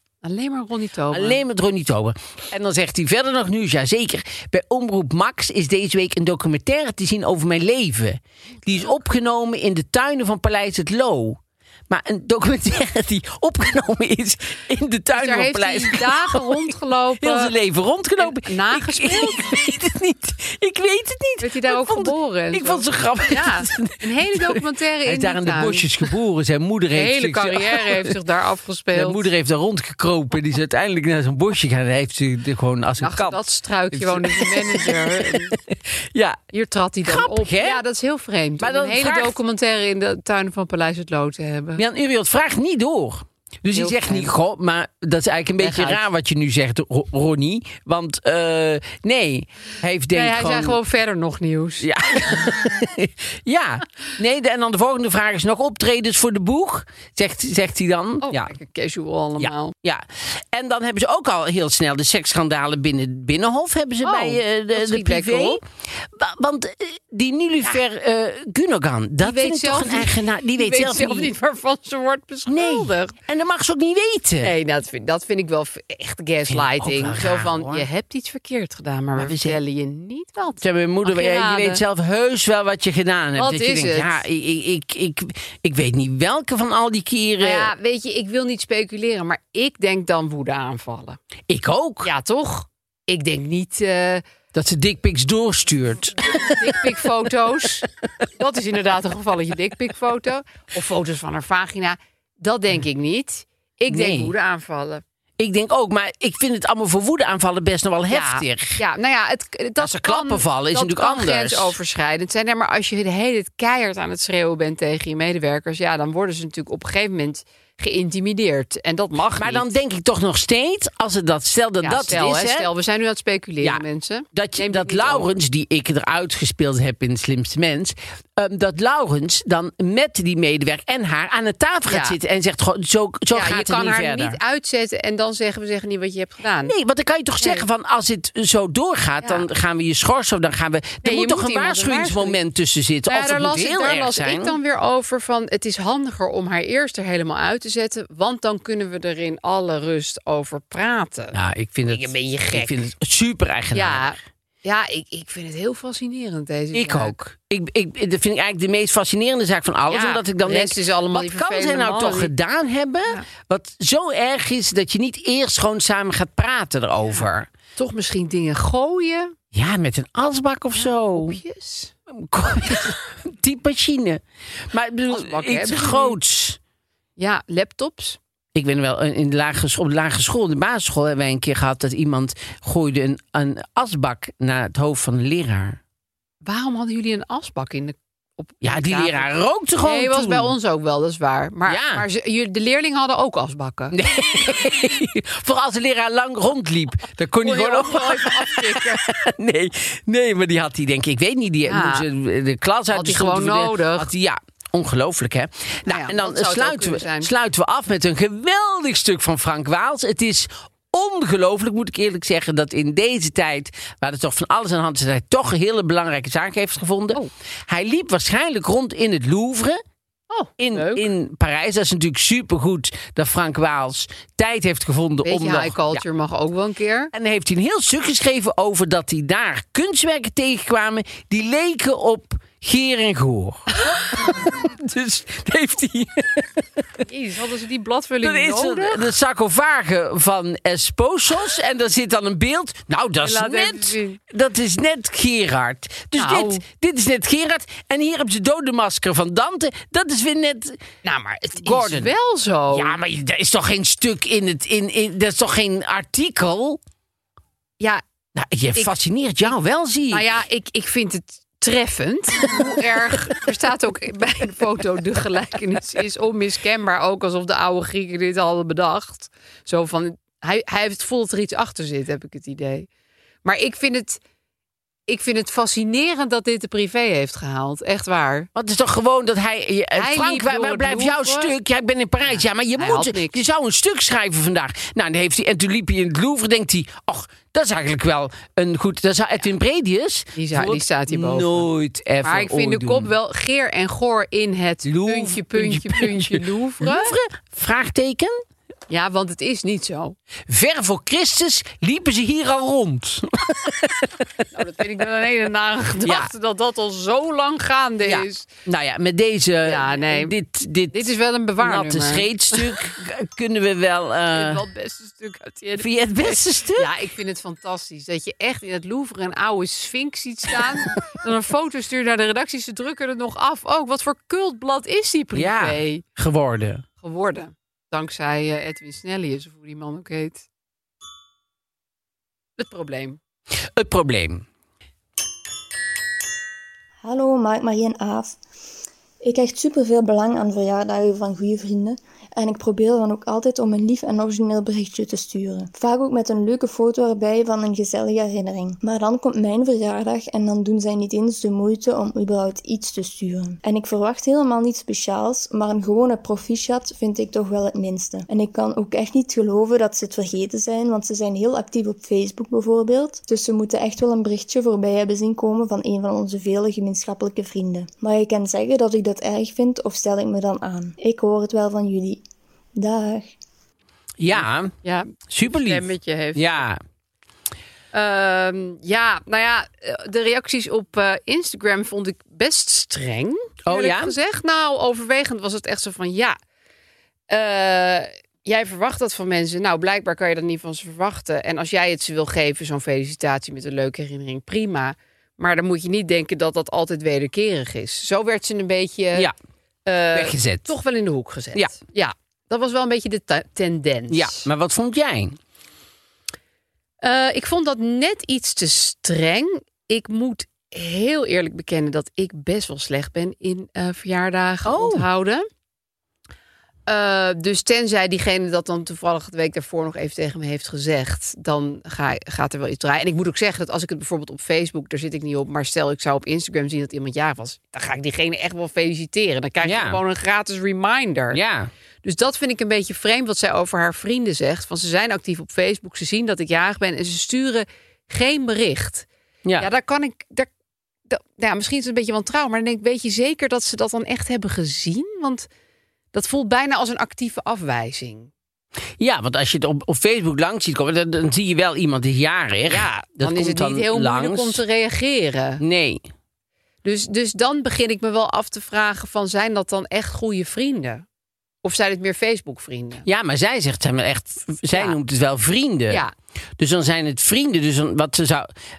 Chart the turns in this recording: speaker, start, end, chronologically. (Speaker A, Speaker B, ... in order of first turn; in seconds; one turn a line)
Speaker A: 0.2-1.4
Speaker B: 1.1-28.1
Speaker A: 8.7-8.9
Speaker A: 15.1-17.5
Speaker A: 18.2-19.6
Speaker A: 21.4-26.1
Speaker A: 26.9-29.3
Speaker B: 28.9-36.4
Speaker A: 33.0-35.5
Speaker A: 36.5-41.8
Speaker B: 37.0-37.8
Speaker B: 38.6-39.4
Speaker B: 41.8-50.8
Speaker A: 43.7-44.3
Speaker A: 45.6-46.0
Speaker A: 50.1-51.9
Speaker B: 51.8-58.5
Speaker A: 58.2-59.7
Speaker B: 59.4-71.3
Speaker A: 64.0-65.6
Speaker A: 69.2-73.1
Speaker B: 72.5-74.5
Speaker A: 74.4-81.8
Speaker B: 76.5-77.8
Speaker B: 79.2-79.6
Speaker B: 80.6-87.7
Speaker A: 83.3-84.2
Speaker A: 87.4-91.2
Speaker B: 91.5-92.1
Speaker A: 92.0-94.2
Speaker B: 94.5-96.8
Speaker A: 96.4-105.0
Speaker B: 103.9-104.3
Speaker B: 105.4-108.8
Speaker A: 108.1-119.7
Speaker B: 109.8-111.7
Speaker B: 119.4-122.7
Speaker A: 121.8-125.3
Speaker B: 123.6-134.4
Speaker A: 131.9-132.2
Speaker A: 133.3-136.7
Speaker B: 136.7-144.6
Speaker A: 137.4-137.7
Speaker A: 141.0-142.4
Speaker A: 143.1-151.3
Speaker B: 151.3-154.0
Speaker A: 151.9-152.8
Speaker A: 153.7-157.1
Speaker B: 156.7-167.5
Speaker A: 159.9-162.3
Speaker A: 167.8-169.3
Speaker B: 169.5-171.4
Speaker A: 170.8-171.9
Speaker B: 172.1-176.6
Speaker A: 175.1-176.2
Speaker A: 177.2-178.2
Speaker B: 178.5-185.8
Speaker A: 186.4-189.3
Speaker B: 188.6-190.5
Speaker A: 189.8-193.9
Speaker B: 191.7-192.0
Speaker B: 193.9-219.8
Speaker A: 197.4-199.0
Speaker A: 201.6-202.0
Speaker A: 202.9-204.1
Speaker A: 205.8-207.3
Speaker A: 220.3-221.1
Speaker B: 220.6-226.0
Speaker A: 225.2-227.1
Speaker B: 227.1-237.0
Speaker A: 237.0-239.1
Speaker B: 238.2-250.8
Speaker A: 243.2-244.2
Speaker A: 246.2-246.6
Speaker A: 251.0-253.0
Speaker B: 251.6-252.1
Speaker B: 252.7-256.8
Speaker B: 258.4-260.3
Speaker A: 260.1-272.9
Speaker A: 273.4-274.2
Speaker A: 275.1-278.5
Speaker B: 278.5-293.1
Speaker A: 279.9-281.5
Speaker A: 282.2-283.4
Speaker A: 290.3-291.7
Speaker A: 292.2-297.1
Speaker B: 294.8-298.4
Speaker A: 298.9-300.1
Speaker B: 300.5-304.2
Speaker A: 304.5-308.5
Speaker B: 306.0-306.3
Speaker B: 308.0-311.1
Speaker A: 309.6-310.3
Speaker A: 310.9-312.7
Speaker B: 311.6-314.6
Speaker A: 314.3-326.0
Speaker B: 315.8-316.9
Speaker B: 325.3-326.8
Speaker A: 327.0-330.4
Speaker A: 332.6-333.2
Speaker B: 333.7-334.4
Speaker C: 337.0-338.4
Speaker C: 339.2-372.2
Speaker C: 372.7-373.3
Speaker B: 374.2-374.7
Speaker A: 374.3-376.6
Speaker B: 375.3-376.8
Speaker A: 377.9-386.4
Speaker B: 383.6-384.1
Speaker A: 387.3-399.3
Speaker A: 399.9-404.4
Speaker B: 400.1-400.7
Speaker B: 404.1-405.4
Speaker A: 407.0-415.5
Speaker B: 414.6-415.1
Speaker A: 416.9-431.4
Speaker B: 429.6-430.0
Speaker B: 431.3-431.7
Speaker A: 432.0-439.1
Speaker A: 439.6-440.5
Speaker A: 441.1-445.5
Speaker A: 446.1-448.3
Speaker B: 449.0-454.6
Speaker A: 452.7-455.6
Speaker B: 455.6-456.0
Speaker A: 456.8-461.0
Speaker A: 461.6-463.0
Speaker B: 463.1-466.0
Speaker B: 466.6-468.5